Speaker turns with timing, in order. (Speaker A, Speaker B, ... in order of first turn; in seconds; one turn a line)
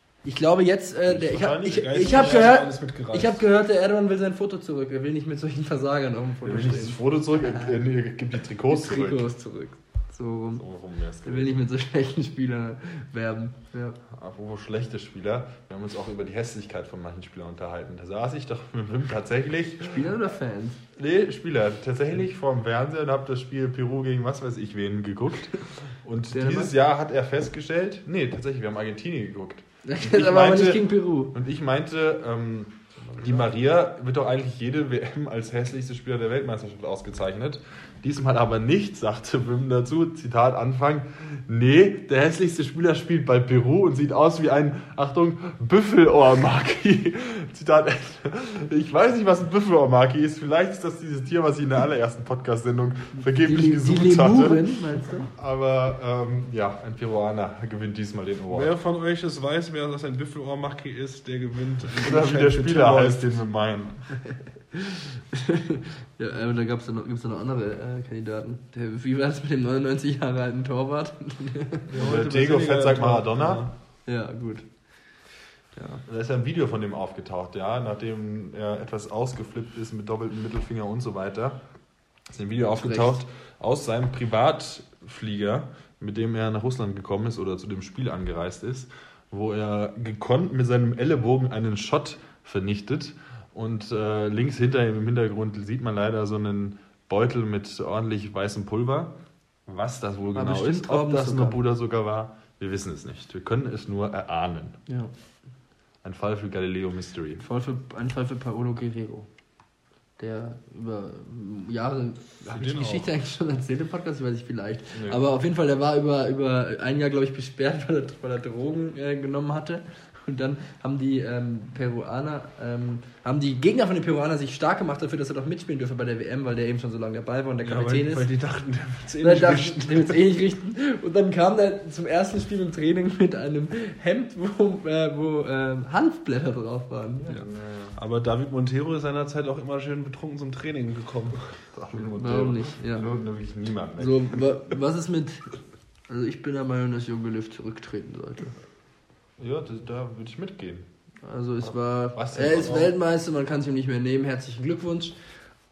Speaker A: 0.2-7.8
Speaker B: 1.0-2.5
Speaker C: 1.6-3.4
Speaker B: 6.4-9.2
Speaker A: 8.7-10.6
Speaker B: 10.6-11.6
Speaker A: 11.2-14.0
Speaker B: 14.1-20.1
Speaker A: 19.8-20.8
Speaker B: 20.9-54.6
Speaker A: 26.3-26.7
Speaker A: 29.8-31.4
Speaker C: 33.1-33.4
Speaker A: 53.4-55.3
Speaker B: 55.3-58.7
Speaker C: 58.5-63.5
Speaker B: 62.0-64.2
Speaker A: 64.7-71.9
Speaker C: 71.9-73.7
Speaker B: 72.0-73.7
Speaker A: 74.0-76.0
Speaker B: 76.0-81.6
Speaker B: 82.2-99.1
Speaker A: 82.7-83.2
Speaker B: 99.7-104.8
Speaker A: 100.3-101.6
Speaker B: 106.0-107.4
Speaker A: 107.4-109.3
Speaker A: 110.2-128.3
Speaker C: 112.5-113.0
Speaker B: 114.9-115.2
Speaker C: 127.6-130.2
Speaker A: 129.2-137.4
Speaker C: 137.3-141.6
Speaker B: 137.3-138.0
Speaker B: 141.7-144.4
Speaker A: 142.2-143.1
Speaker A: 144.0-145.6
Speaker A: 146.1-148.6
Speaker B: 149.4-150.9
Speaker A: 151.2-155.2
Speaker B: 152.1-152.9